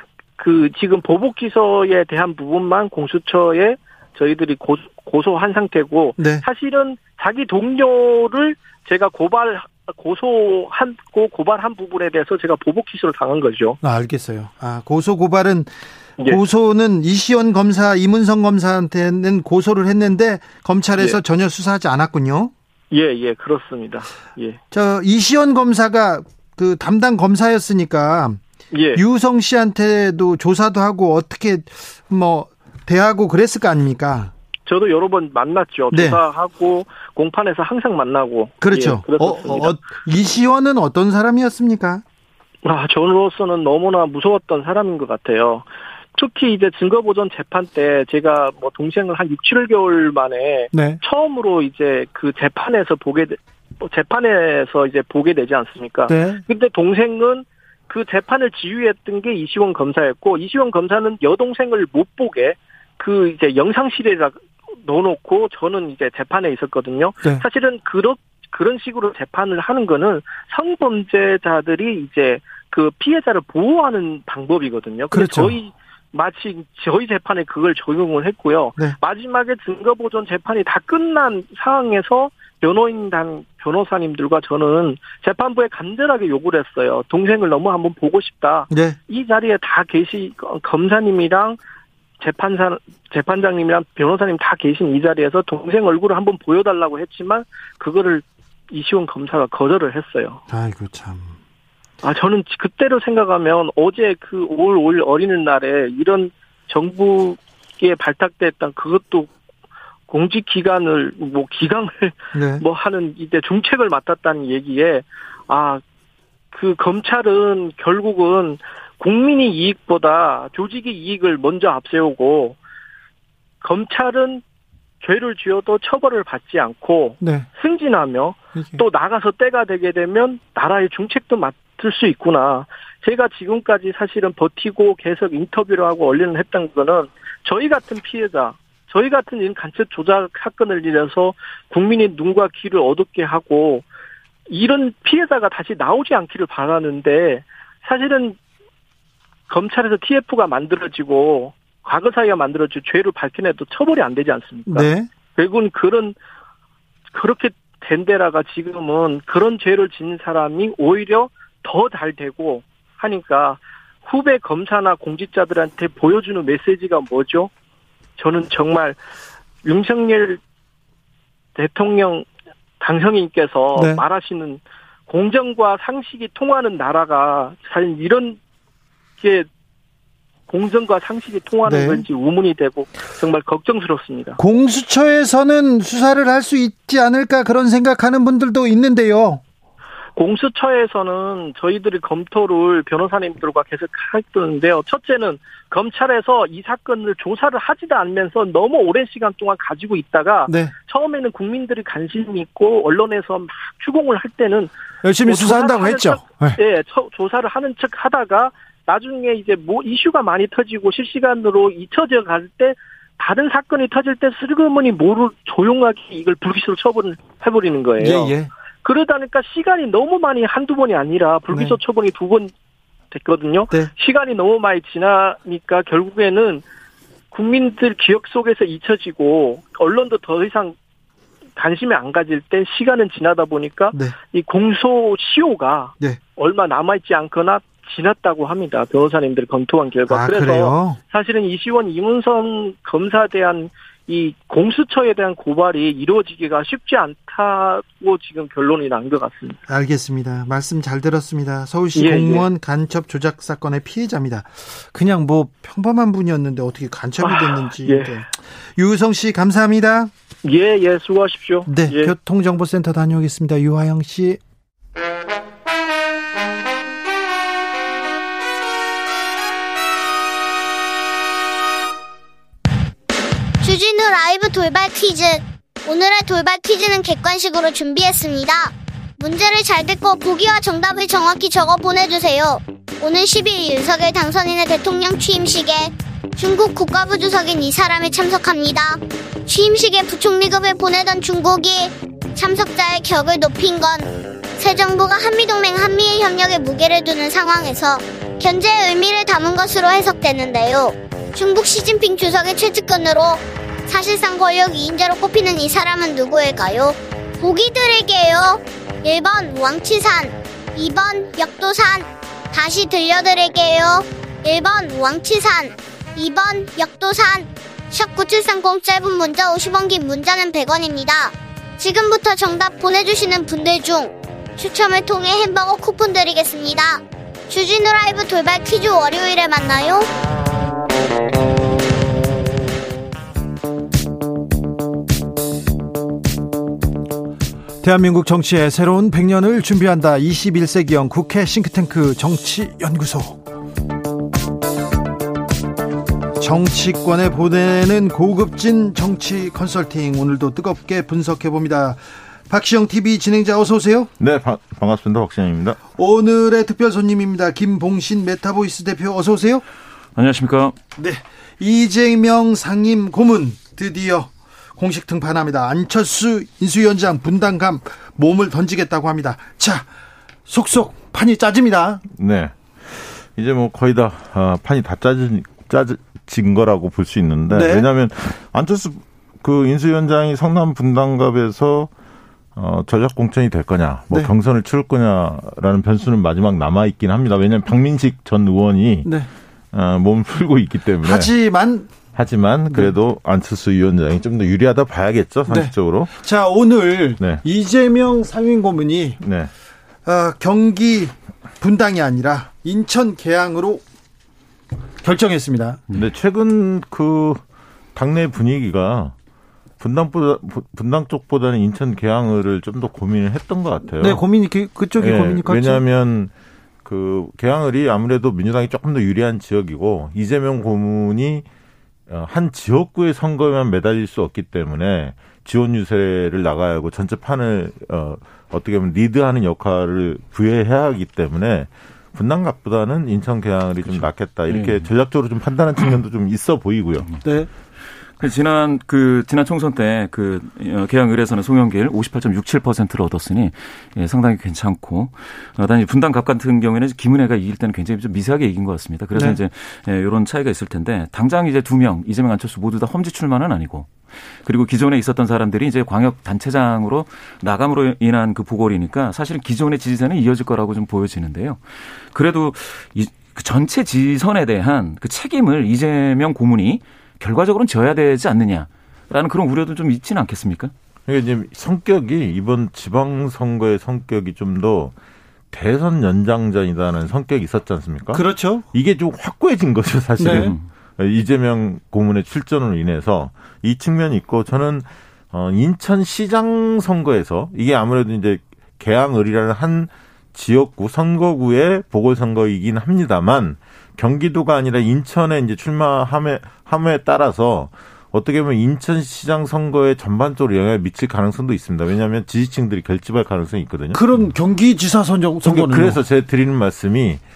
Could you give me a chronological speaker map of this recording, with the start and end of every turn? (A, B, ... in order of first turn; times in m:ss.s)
0:00.4-0:13.8 A
0:06.2-0:06.4 B
0:13.8-0:15.7 B
0:16.2-0:22.5 B
0:22.9-0:24.6 A
0:24.7-0:28.4 B
0:28.7-0:29.0 A
0:28.9-0:34.3 B
0:34.7-0:39.8 A
0:35.9-0:36.2 B
0:38.6-0:42.0 B
0:42.6-1:31.6 A
0:50.7-0:51.0 B
0:56.1-0:56.4 B
1:15.1-1:15.6 B
1:28.7-1:29.0 B
1:32.2-1:40.4 A
1:40.5-1:41.3 B
1:42.0-1:49.3 A
1:50.1-1:55.8 A
1:52.3-1:52.6 B
1:56.5-2:02.6 A
2:03.6-2:04.4 A
2:05.0-2:23.8 A
2:07.2-2:07.5 B
2:08.6-2:08.8 B
2:24.5-2:28.4 A
2:29.5-2:36.1 A
2:34.7-2:35.1 B
2:37.1-2:47.5 A
2:48.2-2:49.0 A
2:49.6-2:50.4 A
2:51.6-2:52.2 A
2:52.8-2:58.4 A
2:53.8-2:54.0 B
2:59.2-2:59.5 A
3:00.5-3:04.4 A
3:01.6-3:02.0 B
3:04.4-3:09.4 B
3:10.2-3:24.7 A
3:20.5-3:20.7 B
3:25.0-3:26.6 B
3:25.2-3:42.5 A
3:38.0-3:38.5 B
3:41.5-3:41.8 B
3:43.1-3:46.6 A
3:47.3-3:50.7 A
3:51.6-4:09.6 A
4:00.1-4:01.0 B
4:09.7-4:20.1 B
4:11.9-4:12.5 A
4:17.2-4:18.2 A
4:20.4-4:22.1 A
4:21.7-4:24.4 B
4:33.6-5:30.1 C
5:37.8-5:43.4 B
5:46.4-5:54.1 B
5:54.2-5:55.8 D
5:56.0-5:59.6 B
6:00.2-6:00.8 E
6:01.0-6:09.9 B
6:10.5-6:12.0 B
6:12.1-6:21.9 D
6:17.5-6:17.9 B
6:22.6-6:29.1 D
6:29.7-6:31.3 D
6:31.0-6:31.9 B
6:32.1-6:36.1 D
6:35.5-6:39.2 B
6:39.2-6:39.5 D
6:40.0-6:43.8 B
6:45.0-6:45.8 B
6:45.9-6:47.4 D
6:47.9-6:49.1 D
6:49.8-6:54.2 D
6:54.0-6:55.8 B
6:55.0-6:56.3 D
6:56.8-7:01.4 D
7:02.1-7:17.0 D
7:13.8-7:14.9 E
7:17.2-7:17.5 B
7:18.2-7:50.7 E
7:29.1-7:29.4 B
7:51.1-7:54.9 D
7:55.5-8:24.0 D
7:58.1-7:58.6 B
8:00.2-8:00.5 B
8:00.2-8:00.6 E
8:23.9-8:26.0 B
8:25.4-8:27.2 D